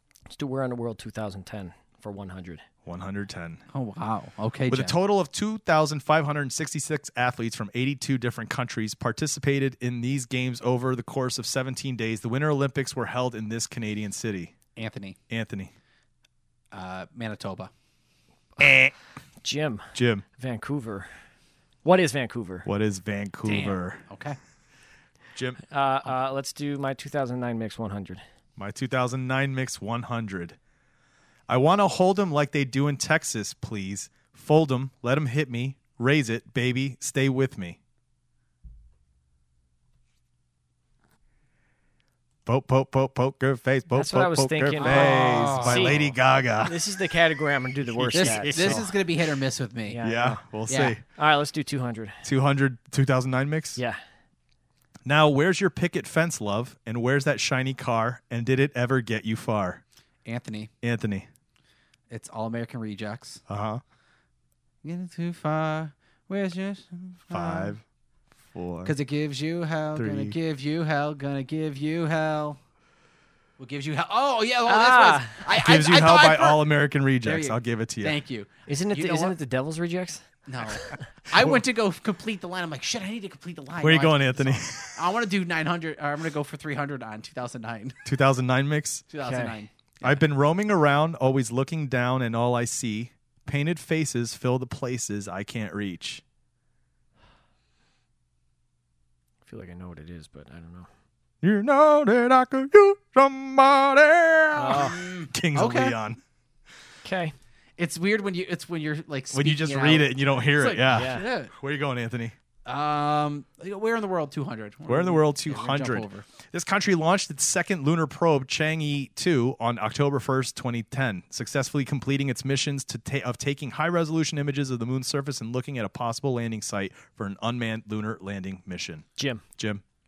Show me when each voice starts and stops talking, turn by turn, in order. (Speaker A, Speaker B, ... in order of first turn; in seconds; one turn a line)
Speaker A: 0.3-2.6
Speaker B: 2.9-3.6
Speaker C: 3.7-5.0
Speaker B: 4.7-14.5
Speaker C: 14.8-15.2
Speaker B: 15.3-15.7
Speaker C: 16.7-17.7
Speaker B: 18.6-18.9
Speaker A: 19.4-21.1
Speaker B: 19.9-20.2
Speaker A: 21.8-22.7
Speaker B: 22.6-24.0
Speaker C: 23.5-24.4
Speaker B: 25.4-25.6
Speaker A: 25.7-28.2
Speaker B: 28.6-30.6
Speaker B: 31.5-37.8
Speaker B: 42.5-46.8
Speaker A: 43.9-46.1
Speaker C: 44.8-46.1
Speaker A: 46.6-48.9
Speaker B: 48.0-48.9
Speaker C: 48.1-50.0
Speaker A: 49.9-50.4
Speaker B: 50.0-51.0
Speaker C: 50.7-51.0
Speaker A: 51.1-52.2
Speaker B: 52.2-53.8
Speaker B: 55.1-59.8
Speaker C: 60.2-60.7
Speaker B: 60.8-61.3
Speaker C: 62.1-63.4
Speaker B: 63.5-63.8
Speaker C: 64.8-67.8
Speaker B: 67.3-67.8
Speaker B: 68.5-68.9
Speaker C: 68.8-72.6
Speaker B: 70.0-70.4
Speaker C: 73.6-76.7
Speaker A: 74.7-75.4
Speaker B: 75.5-78.2
Speaker C: 77.2-79.4
Speaker A: 78.7-80.2
Speaker C: 80.5-88.0
Speaker B: 83.8-85.0
Speaker B: 88.0-89.1
Speaker C: 89.1-90.2
Speaker A: 89.2-89.6
Speaker B: 90.0-96.2
Speaker A: 99.5-100.9
Speaker B: 101.4-106.2
Speaker A: 104.6-105.1
Speaker C: 104.7-106.0
Speaker A: 107.0-107.3
Speaker C: 107.8-111.5
Speaker B: 109.3-112.4
Speaker A: 110.9-111.2
Speaker C: 112.7-116.3
Speaker B: 114.9-129.1
Speaker A: 129.2-129.4
Speaker B: 129.6-129.8